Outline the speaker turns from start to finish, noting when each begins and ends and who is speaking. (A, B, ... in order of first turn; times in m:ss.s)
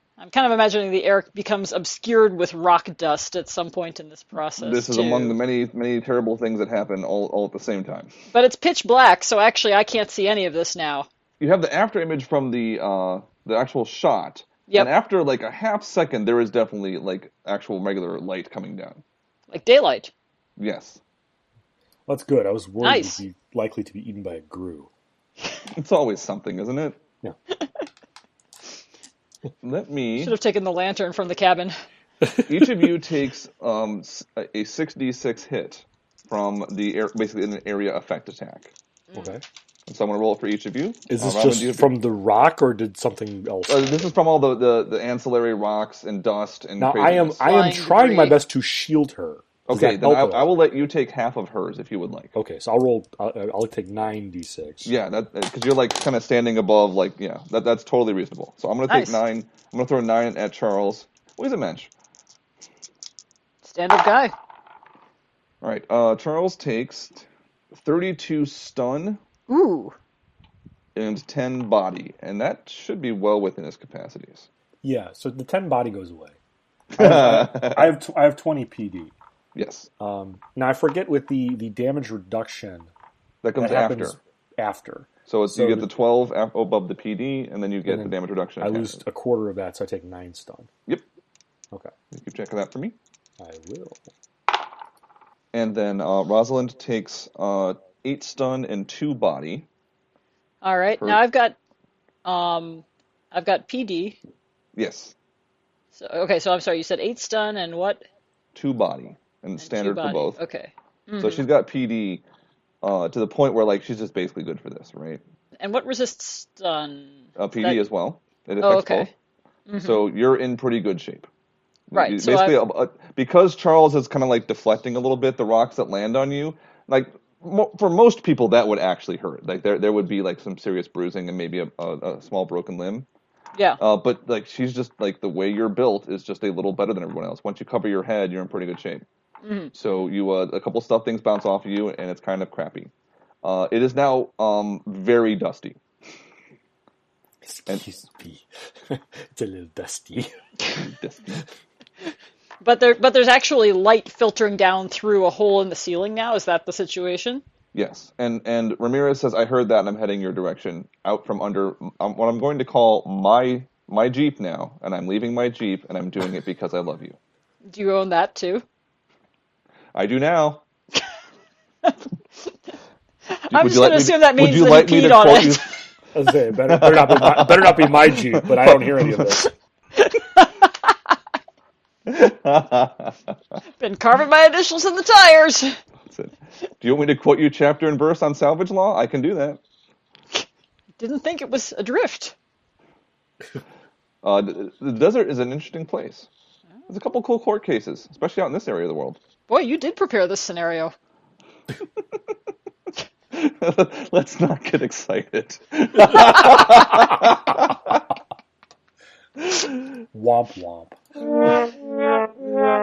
0:00.2-0:05.4 A
0:04.6-0:08.1 B
0:08.3-0:11.1 A
0:11.4-0:19.0 B
0:19.5-0:20.1 A
0:20.6-0:21.0 B
0:22.1-0:24.9 C
0:22.8-0:23.2 A
0:25.7-0:27.0 B
0:29.6-0:30.4 B
0:30.2-0:31.7 A
0:32.4-0:38.7 B
0:39.1-0:39.4 A
0:39.2-0:39.4 C
0:39.9-0:41.9 B
0:41.1-0:44.1 C
0:43.7-0:47.5 B
0:46.8-0:50.6 C
0:47.4-0:48.4 A
0:49.7-0:52.4 B
0:52.4-0:54.9 C
0:54.8-1:01.9 B
0:58.9-0:59.2 A
1:03.6-1:04.3 A
1:05.6-1:09.2 B
1:09.5-1:10.0 A
1:11.0-1:14.5 B
1:14.8-1:16.4 C
1:16.9-1:18.0 B
1:17.0-1:19.1 C
1:19.6-1:19.9 B
1:20.0-1:22.9 C
1:23.4-1:24.2 B
1:23.6-1:25.9 C
1:25.3-1:29.0 B
1:27.9-1:30.7 C
1:32.1-1:33.0 B
1:33.4-1:34.1 C
1:35.5-1:39.7 B
1:40.6-1:41.6 A
1:42.2-1:44.2 A
1:44.8-1:45.1 B
1:45.9-1:48.0 A
1:48.6-1:50.4 B
1:49.6-1:51.4 A
1:51.2-1:52.2 B
1:52.8-1:55.2 B
1:55.6-1:57.9 A
1:57.4-1:59.1 B
1:58.6-1:59.1 A
1:59.7-2:00.1 A
1:59.8-2:01.3 B
2:01.9-2:13.1 B
2:01.9-2:02.6 A
2:13.8-2:19.0 B
2:19.4-2:19.7 A
2:19.7-2:22.9 B
2:23.4-2:25.8 B
2:27.4-2:30.4 C
2:30.8-2:31.4 B
2:32.6-2:37.4 A
2:37.7-2:47.2 B
2:47.7-2:48.6 A
2:49.9-2:50.6 B
2:53.3-2:55.7 A
2:53.5-2:55.8 B
2:56.1-2:59.5 C
2:56.7-2:59.3 B
3:00.0-3:00.9 A
3:02.1-3:03.2 B
3:03.8-3:05.8 A
3:06.1-3:09.6 B
3:11.0-3:12.4 A
3:14.2-3:16.3 B
3:16.9-3:19.2 B
3:19.5-3:20.9 A
3:23.3-3:28.0 B
3:30.1-3:31.0 C